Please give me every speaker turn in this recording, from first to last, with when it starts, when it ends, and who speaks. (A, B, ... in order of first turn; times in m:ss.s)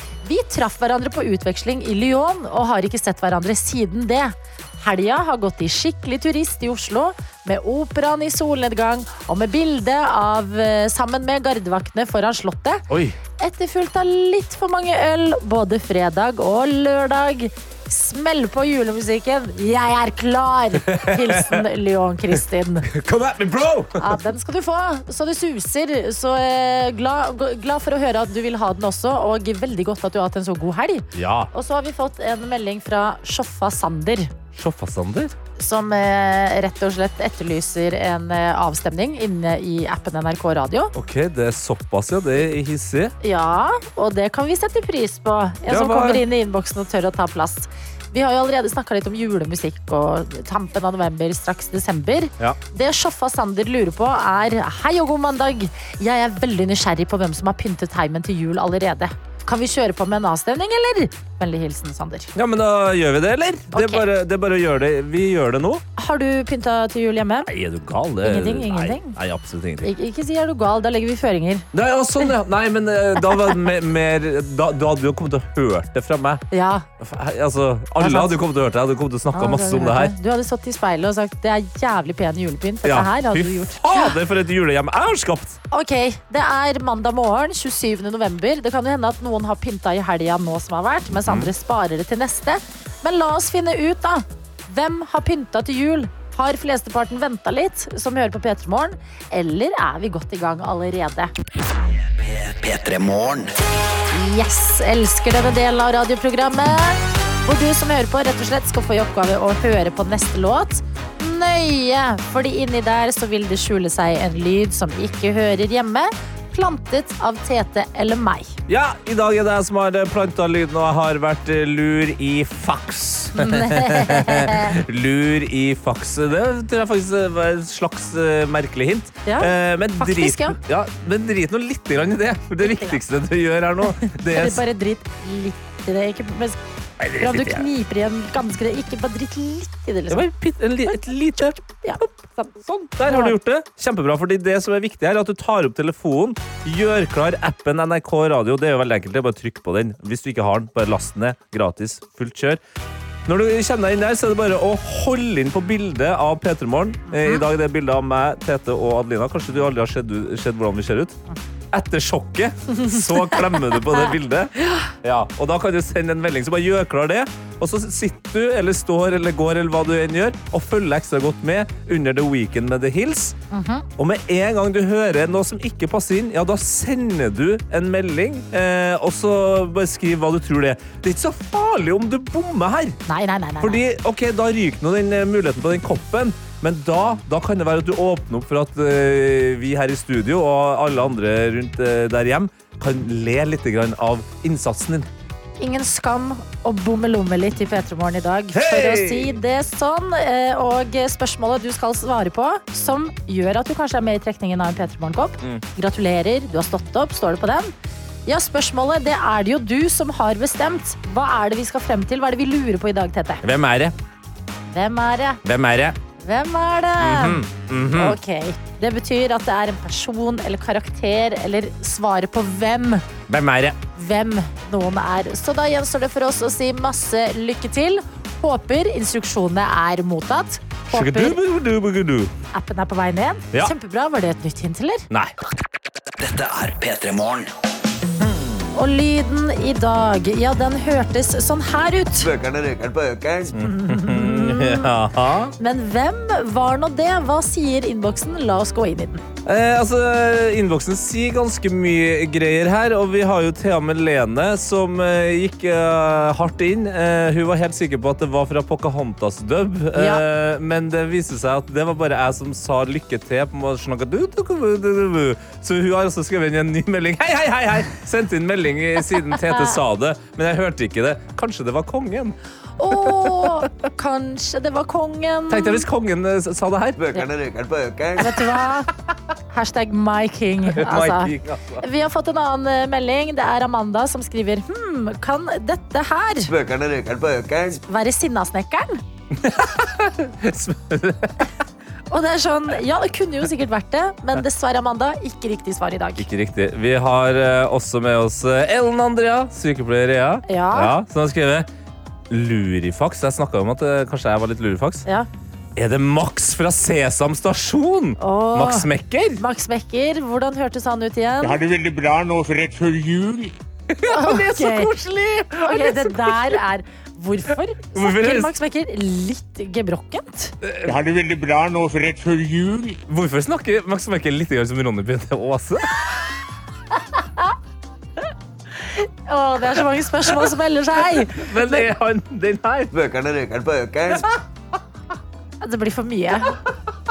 0:00.2-0:12.8 A
0:12.9-0:13.2 B
0:13.4-0:22.9 A
0:20.9-0:21.6 B
0:22.8-0:24.2 B
0:24.0-0:34.3 A
0:31.1-0:31.5 B
0:34.5-0:35.3 B
0:35.6-0:40.9 A
0:40.9-0:43.1 B
0:43.2-1:02.3 A
0:45.7-0:46.2 B
1:02.3-1:05.8 B
1:03.7-1:04.1 A
1:06.0-1:07.5 A
1:07.5-1:09.9 B
1:08.2-1:09.2 A
1:09.8-1:11.7 A
1:11.7-1:16.4 B
1:16.5-1:16.9 A
1:17.0-1:20.1 B
1:18.0-1:18.4 A
1:19.3-1:24.2 A
1:22.8-1:25.6 B
1:25.7-1:41.3 A
1:31.1-1:31.5 B
1:41.9-1:43.5 C
1:44.1-1:58.6 A
1:58.7-2:14.6 B
2:03.4-2:04.7 A
2:09.2-2:10.6 A
2:12.6-2:13.0 A
2:13.9-2:16.6 A
2:17.0-2:17.7 B
2:17.2-2:20.2 A
2:20.1-2:22.1 B
2:21.8-2:22.5 A
2:22.6-2:32.6 B
2:23.0-2:23.4 A
2:33.2-2:41.2 B
2:37.1-2:37.4 A
2:41.7-2:53.4 B
2:42.9-2:43.8 A
2:53.5-2:53.9 A
2:54.0-3:03.0 B
3:03.1-3:03.8 A
3:03.6-3:15.1 B
3:15.6-3:27.7 A
3:18.5-3:19.4 B
3:28.3-3:33.4 A
3:33.4-3:33.9 B
3:34.7-3:35.4 A
3:35.4-3:36.0 B
3:36.2-3:37.4 A
3:37.0-3:38.2 B
3:37.9-3:43.0 A
3:43.3-3:43.8 B
3:43.9-3:51.4 A
3:50.9-3:52.3 B
3:52.5-3:55.1 A
3:55.1-3:55.3 B
3:56.2-3:57.5 C
3:58.2-3:58.5 B
3:58.7-4:02.3 A
4:02.2-4:03.6 D
4:03.5-4:05.5 B
4:03.6-4:04.9 A
4:05.6-4:09.2 A
4:09.4-4:32.4 B
4:20.0-4:20.2 A
4:32.8-4:35.8 A
4:32.9-4:33.7 B
4:35.5-4:37.0 B
4:37.0-4:38.5 D
4:38.2-4:38.9 A
4:39.5-4:46.5 A
4:40.7-4:41.8 B
4:46.5-4:47.8 D
4:47.9-4:49.0 A
4:49.3-4:51.4 B
4:52.1-4:56.2 A
4:56.2-5:01.7 B
5:00.5-5:00.9 A
5:02.3-5:05.0 B
5:05.8-5:09.4 B
5:08.2-5:11.6 A
5:11.4-5:13.5 E
5:13.9-5:16.6 B
5:14.1-5:14.9 A
5:15.6-5:20.5 A
5:17.9-5:18.5 B
5:20.6-5:20.9 B
5:20.8-5:23.0 E
5:23.1-5:25.9 B
5:28.8-5:31.9 A
5:31.1-5:32.9 B
5:32.9-5:34.3 D
5:35.6-5:36.6 A